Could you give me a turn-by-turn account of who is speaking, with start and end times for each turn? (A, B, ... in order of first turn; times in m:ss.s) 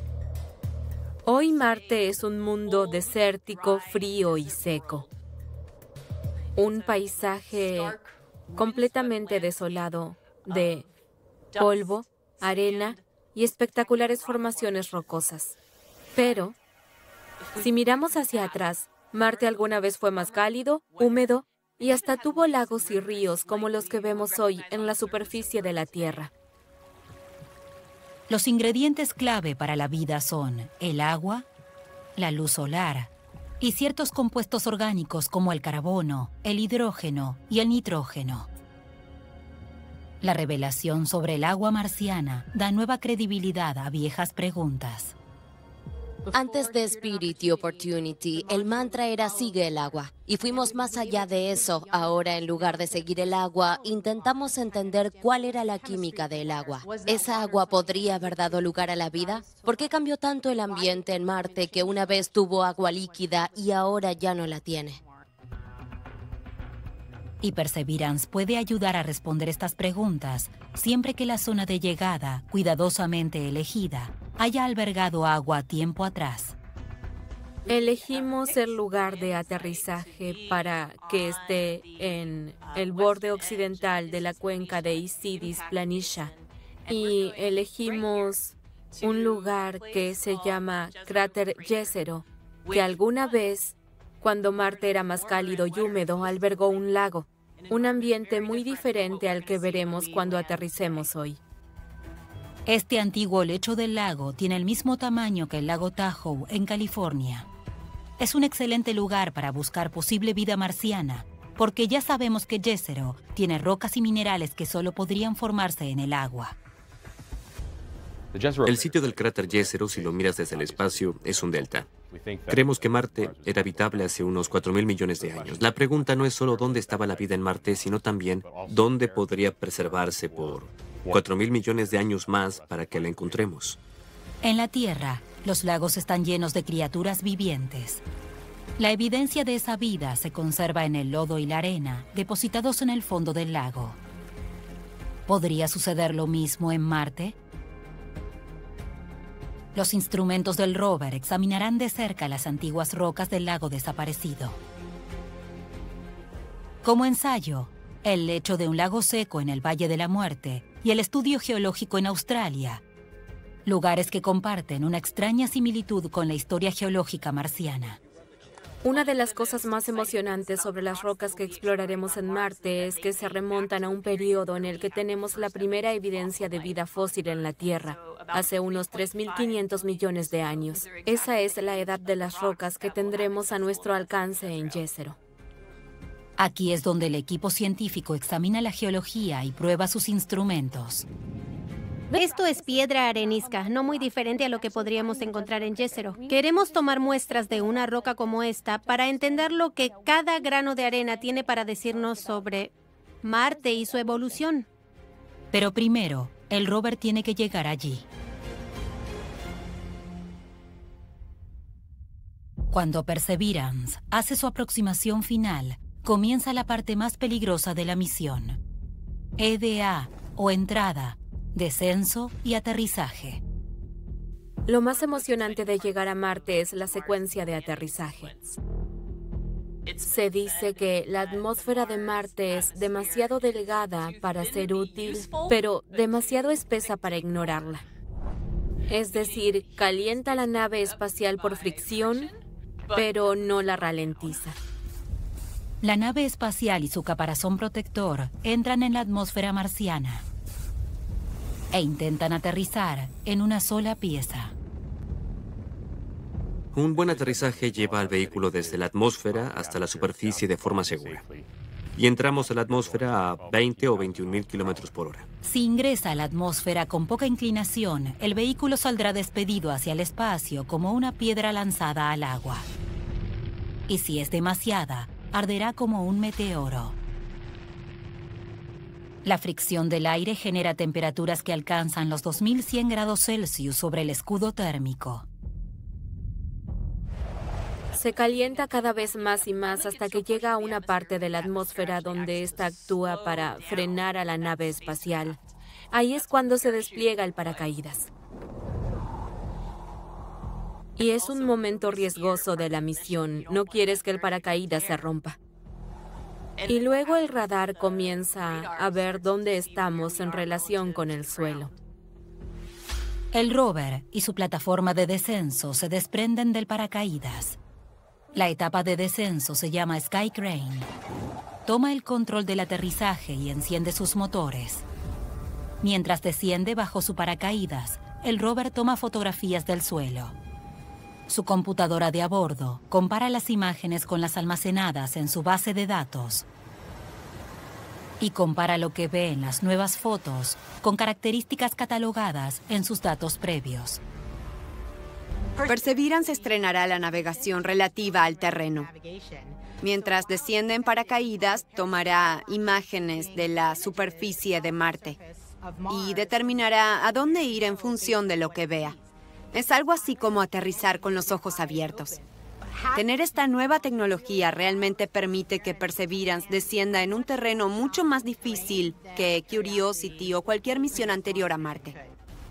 0:01.3-0:05.1 A
0:06.6-0:08.0 A
0:08.6-0:10.9 A
0:11.6-0:15.6 A
0:16.2-0:16.6 A
0:17.6-0:26.3 A
0:28.3-0:31.5 B
0:32.2-0:38.5 B
0:40.2-0:45.2 B
0:46.3-1:05.0 C
1:07.4-1:16.6 B
1:17.7-1:26.3 A
1:26.9-1:41.4 A
1:42.7-1:47.5 B
1:48.2-1:56.6 B
1:58.6-2:01.9 D
2:02.5-2:13.8 D
2:14.4-2:18.0 B
2:18.8-2:24.0 B
2:25.3-2:27.4 B
2:29.7-2:34.6 B
2:36.8-2:42.8 B
2:43.6-2:48.0 B
2:48.8-3:05.2 A
3:06.4-3:11.1 B
3:12.1-3:24.7 E
3:25.5-3:28.0 B
3:32.7-3:38.6 B
3:39.4-3:43.4 B
3:44.7-3:48.6 A
3:50.0-3:57.8 A
3:58.9-4:02.3 A
4:03.0-4:04.6 A
4:05.8-4:10.2 B
4:11.7-4:14.5 B
4:16.7-4:21.2 D
4:22.0-4:25.2 D
4:25.4-4:32.7 B
4:33.9-4:37.0 B
4:39.2-4:45.3 B
4:47.9-4:55.4 A
4:55.9-4:58.1 A
5:01.0-5:05.4 A
5:06.6-5:11.7 A
5:13.3-5:17.6 B
5:18.3-5:20.9 B
5:21.7-5:24.8 B
5:25.8-5:30.4 B
5:31.3-5:36.5 B
5:38.2-5:44.0 B
5:45.6-5:48.9 F
5:49.8-5:55.2 F
5:55.9-5:59.0 F
5:59.5-6:02.2 F
6:02.9-6:12.0 F